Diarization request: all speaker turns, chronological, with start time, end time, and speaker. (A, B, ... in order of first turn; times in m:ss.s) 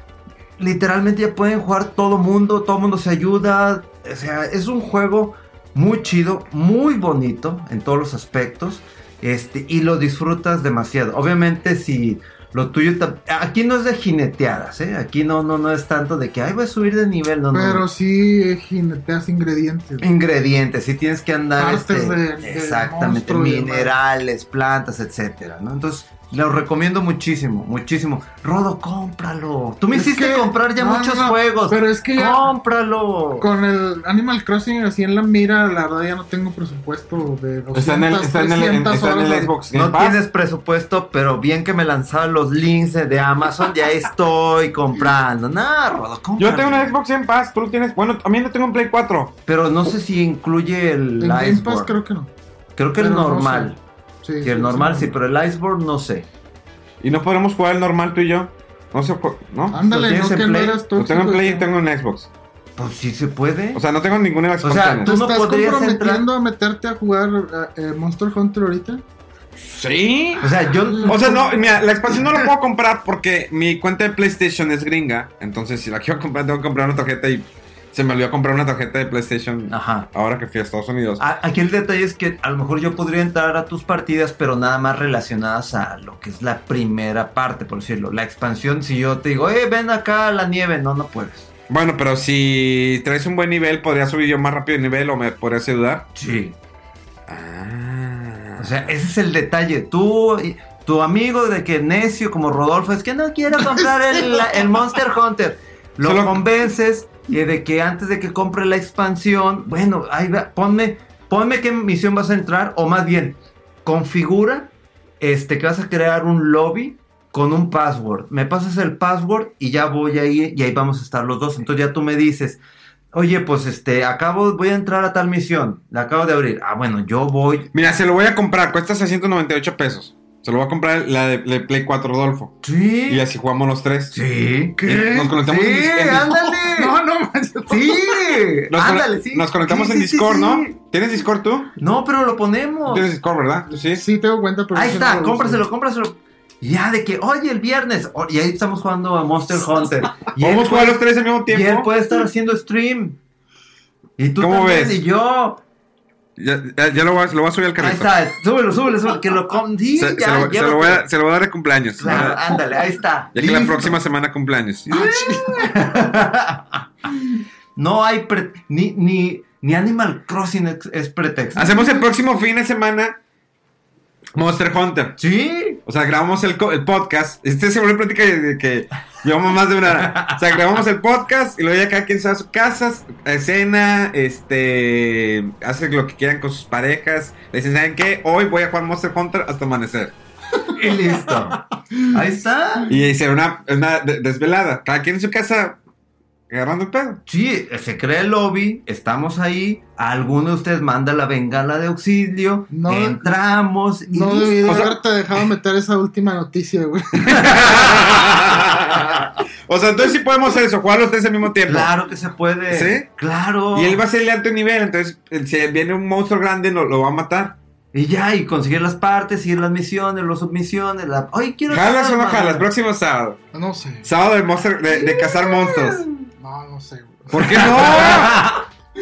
0:00.6-0:17.8 A
0:17.5-0:20.1 B
0:20.0-0:33.5 A
0:21.6-0:23.9 B
0:29.9-0:32.5 B
0:33.4-0:39.6 B
0:37.7-0:40.2 C
0:39.7-0:47.0 A
0:46.4-0:49.4 C
0:49.5-0:52.0 A
0:51.2-0:52.3 B
0:52.8-0:53.8 A
0:53.0-0:53.7 B
0:54.2-0:55.1 B
0:54.4-0:56.3 A
0:57.0-0:59.8 C
0:59.7-1:01.7 B
0:59.8-1:00.8 A
1:01.0-1:02.3 C
1:02.8-1:03.8 A
1:03.7-1:05.1 C
1:04.6-1:06.3 A
1:05.0-1:09.0 B
1:09.6-1:10.4 C
1:10.4-1:11.5 A
1:11.0-1:11.4 B
1:11.0-1:21.2 C
1:19.7-1:20.1 A
1:21.2-1:31.5 A
1:31.7-1:36.1 C
1:36.2-1:36.6 A
1:37.3-1:38.9 C
1:38.6-2:02.6 A
1:46.0-1:46.4 C
2:03.1-2:07.7 A
2:07.7-2:12.6 C
2:12.6-2:13.3 A
2:13.1-2:14.2 C
2:14.1-2:17.0 A
2:14.8-2:15.3 B
2:14.8-2:16.3 C
2:16.2-2:18.4 B
2:17.7-2:20.7 A
2:18.7-2:21.7 C
2:21.8-2:23.1 A
2:22.9-2:24.0 C
2:23.7-2:25.6 B
2:24.8-2:33.2 A
2:30.4-2:31.9 C
2:34.2-2:35.6 A
2:34.4-2:35.0 C
2:36.4-2:38.1 C
2:37.8-2:41.1 A
2:40.0-2:42.4 C
2:42.0-2:44.0 A
2:43.3-2:44.9 C
2:44.9-2:47.1 A
2:44.9-2:46.0 B
2:47.8-2:51.8 A
2:51.6-2:53.2 C
2:54.4-2:55.2 C
2:55.2-2:55.8 A
2:55.9-3:10.1 C
2:59.9-3:00.4 A
3:10.7-3:12.9 A
3:12.9-3:15.8 C
3:16.5-3:17.2 C
3:17.3-3:24.9 A
3:22.7-3:23.3 B
3:24.1-3:27.7 B
3:24.7-3:25.0 C
3:27.3-3:31.9 C
3:27.4-3:29.3 A
3:31.7-3:34.0 A
3:32.7-3:33.1 C
3:33.7-3:37.6 C
3:37.9-3:42.7 A
3:41.7-3:43.4 C
3:43.5-3:44.1 B
3:44.0-3:46.1 C
3:44.9-3:46.2 A
3:46.4-3:48.3 B
3:47.3-3:48.5 C
3:47.4-3:48.7 A